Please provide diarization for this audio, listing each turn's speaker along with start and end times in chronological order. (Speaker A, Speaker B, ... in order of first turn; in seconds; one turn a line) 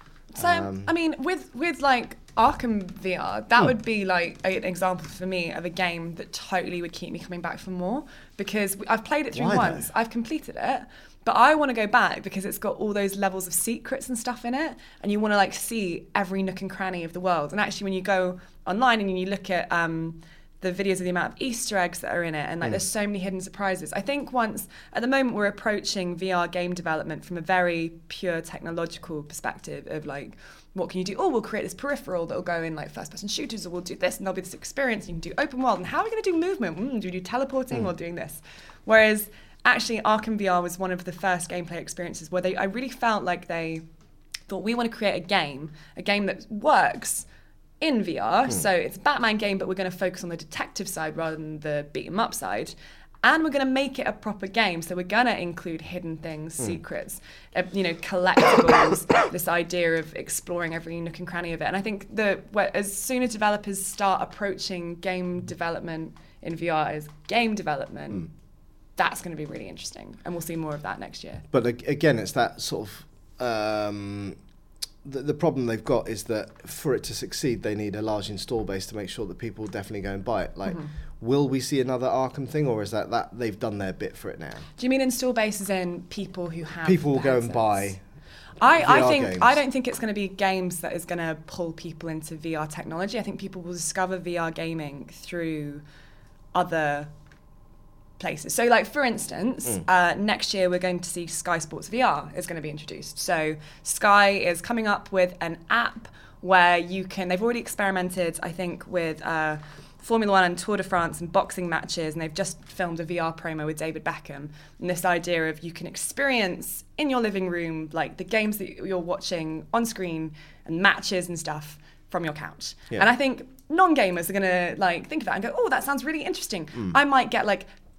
Speaker A: 0.3-43.8
Speaker B: 0.4-0.9
Speaker B: 9.3-9.9
Speaker A: 44.5-47.2
Speaker A: 47.8-68.3
Speaker A: 69.0-71.4
Speaker B: 71.5-74.4
Speaker B: 75.0-84.7
Speaker A: 84.8-87.9
Speaker B: 86.8-88.0
Speaker A: 88.6-95.8
Speaker B: 88.6-89.6
Speaker A: 96.5-97.1
Speaker A: 98.2-127.7